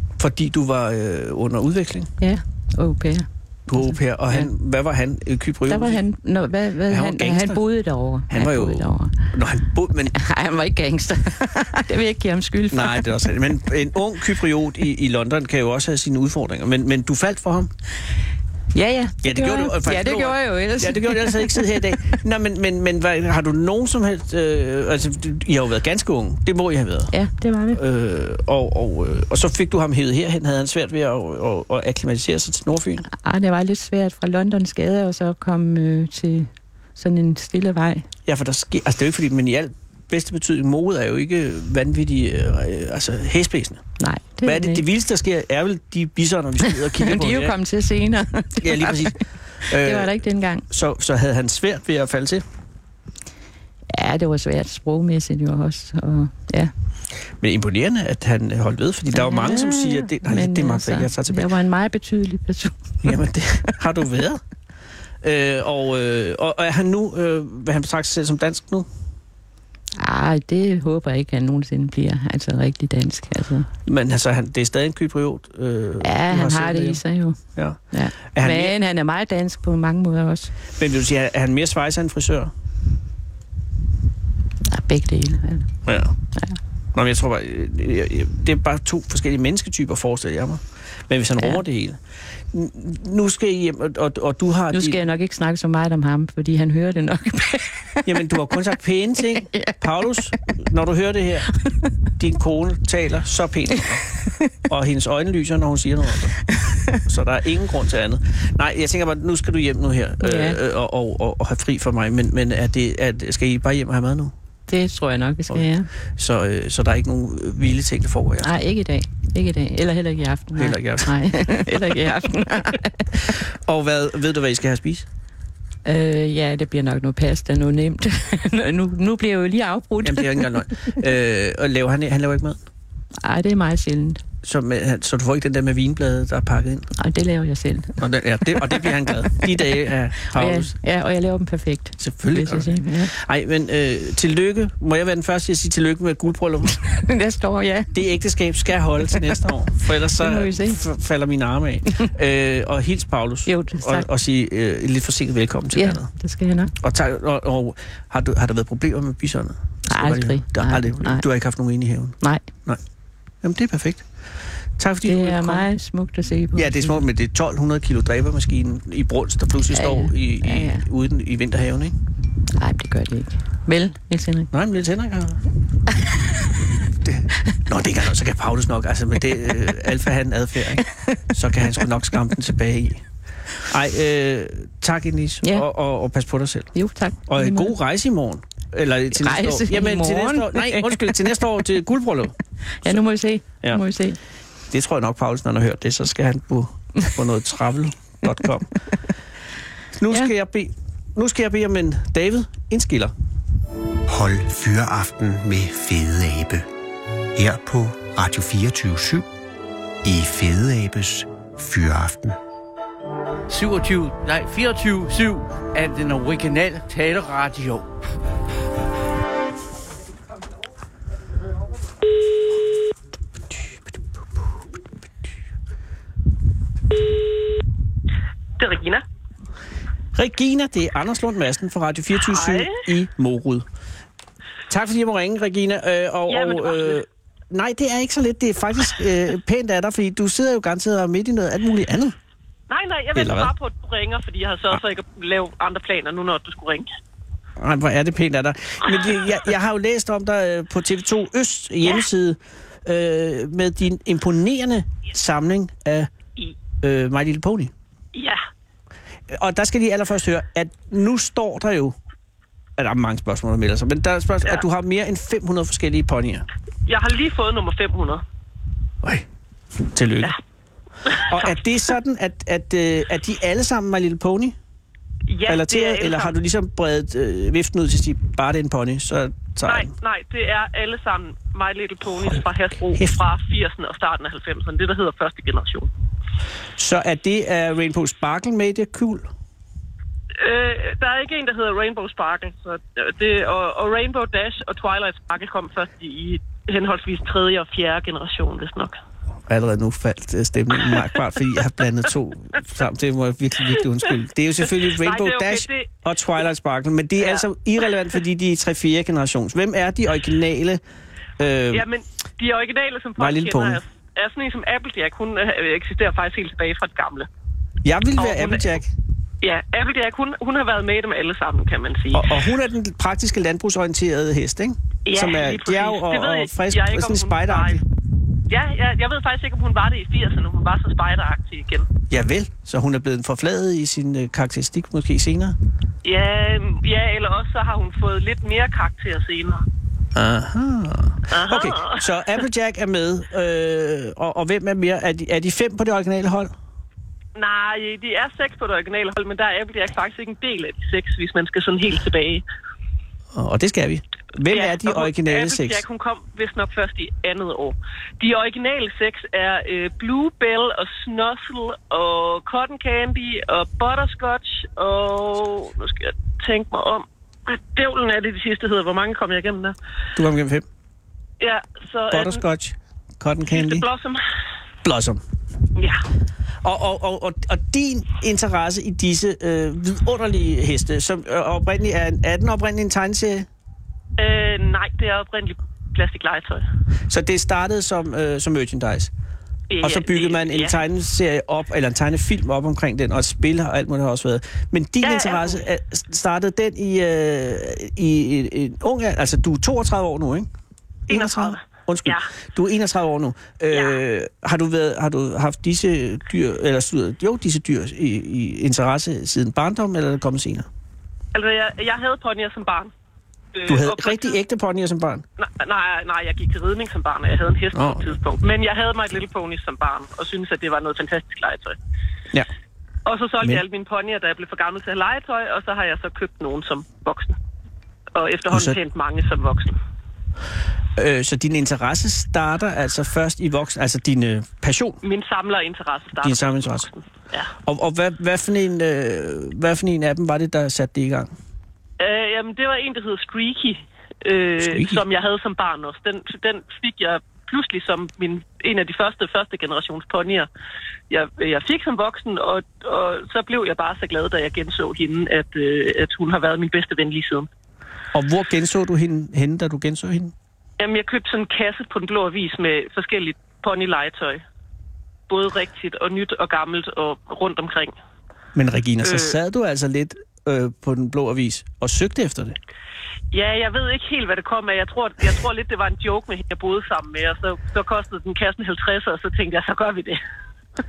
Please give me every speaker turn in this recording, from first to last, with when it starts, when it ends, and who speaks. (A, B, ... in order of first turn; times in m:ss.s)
0:00.2-0:02.1 A
0:02.2-0:04.5 B
0:03.7-0:06.0 A
0:05.7-0:09.2 B
0:06.9-0:07.6 A
0:08.3-0:10.2 A
0:10.1-0:13.3 B
0:12.7-0:17.7 A
0:18.7-0:22.1 B
0:19.2-0:27.1 A
0:27.1-0:27.8 B
0:27.7-0:33.0 A
0:33.1-0:38.1 B
0:38.3-0:43.8 A
0:44.0-0:44.8 B
0:44.4-0:47.5 A
0:46.7-0:49.2 B
0:48.6-0:50.1 A
0:49.7-0:50.6 B
0:50.7-0:52.4 A
0:53.9-0:56.7 B
0:57.4-1:01.5 A
0:59.1-1:03.2 B
1:03.0-1:04.4 A
1:05.2-1:08.9 A
1:10.0-1:13.7 B
1:13.9-1:17.0 A
1:16.0-1:20.5 B
1:17.5-1:18.7 A
1:20.8-1:22.5 A
1:24.7-1:25.7 B
1:25.8-1:26.1 A
1:26.9-1:32.0 A
1:32.5-1:35.0 A
1:34.7-1:38.2 B
1:38.0-1:41.5 A
1:39.2-1:40.2 B
1:42.2-1:44.0 A
1:44.7-1:46.4 A
1:46.5-1:47.0 B
1:47.0-1:54.3 A
1:50.2-1:50.6 B
1:54.7-1:55.9 B
1:55.5-1:58.5 A
1:58.4-2:03.4 B
2:00.6-2:01.7 A
2:03.2-2:05.0 A
2:05.8-2:10.9 B
2:10.0-2:12.6 A
2:13.2-2:14.2 B
2:14.4-2:16.9 A
2:17.0-2:19.7 B
2:18.0-2:20.7 A
2:20.3-2:23.1 B
2:22.0-2:26.7 A
2:26.8-2:28.0 B
2:27.9-2:36.1 A
2:29.1-2:29.4 B
2:30.2-2:30.8 B
2:33.4-2:34.1 B
2:35.7-2:36.7 B
2:36.8-2:42.8 A
2:39.9-2:41.2 B
2:43.4-2:44.1 A
2:44.8-2:45.7 A
2:45.0-2:47.0 B
2:46.5-2:51.9 A
2:49.7-2:50.8 B
2:52.5-2:54.5 B
2:54.5-2:55.4 A
2:57.1-3:03.0 A
3:00.8-3:01.8 B
3:03.7-3:06.7 A
3:06.7-3:07.8 B
3:07.3-3:13.0 A
3:09.1-3:11.3 B
3:12.8-3:14.2 B
3:14.7-3:18.7 A
3:20.0-3:23.1 A
3:24.1-3:26.7 C
3:27.3-3:29.3 C
3:30.0-3:32.4 C
3:33.5-3:37.8 D
3:48.6-3:49.0 E
3:50.1-3:53.7 A
3:52.1-3:52.8 E
3:54.7-4:02.1 A
3:56.3-3:57.0 E
4:02.7-4:06.9 E
4:03.1-4:03.5 A
4:07.6-4:16.1 A
4:16.8-4:17.7 A
4:18.1-4:18.4 E
4:19.3-4:22.0 A
4:22.8-4:26.4 A
4:26.8-4:28.2 E
4:29.8-4:30.4 A
4:31.0-4:31.6 E
4:31.3-4:34.6 A
4:35.3-4:36.4 E
4:35.5-4:39.9 A
4:39.6-4:45.9 E
4:42.9-4:43.2 A
4:46.8-4:49.3 A
4:50.4-4:59.0 E
4:59.5-5:10.8 A
5:04.8-5:05.9 E
5:07.2-5:07.4 E
5:11.4-5:11.8 A
5:11.7-5:17.3 E
5:13.2-5:13.8 A
5:17.8-5:18.9 A
5:18.2-5:18.8 E
5:19.4-5:22.4 E
5:22.1-5:27.8 A
5:25.0-5:27.8 E
5:28.5-5:31.9 E
5:32.1-5:35.6 A
5:36.0-5:39.6 E
5:40.1-5:46.5 A
5:41.3-5:42.0 E
5:47.4-5:52.4 E
5:53.3-5:55.8 A
5:54.5-6:09.7 E
6:10.1-6:10.6 A
6:11.4-6:12.4 E
6:12.1-6:13.8 A
6:13.4-6:14.2 E
6:14.8-6:15.2 A
6:15.7-6:16.0 E
6:16.6-6:23.5 A
6:24.2-6:26.6 E
6:27.1-6:29.1 A
6:29.7-6:30.8 E
6:29.8-6:40.5 A
6:35.0-6:35.6 E
6:41.1-6:50.7 A
6:41.1-6:42.3 E
6:43.7-6:44.0 E
6:51.3-6:52.9 E
6:53.5-6:54.4 E
6:53.6-6:55.2 A
6:55.4-7:01.8 E
6:57.7-6:58.1 A
7:03.0-7:07.4 E
7:08.1-7:09.8 E
7:08.5-7:08.8 A
7:11.0-7:15.0 A
7:15.0-7:17.5 E
7:16.2-7:16.9 A
7:17.6-7:21.3 A
7:22.0-7:30.5 E
7:24.6-7:25.0 A
7:31.1-7:37.5 E
7:38.1-7:40.3 A
7:40.8-7:44.4 E
7:45.3-7:47.9 E
7:48.5-7:52.6 A
7:49.0-7:49.4 E
7:53.3-8:00.2 E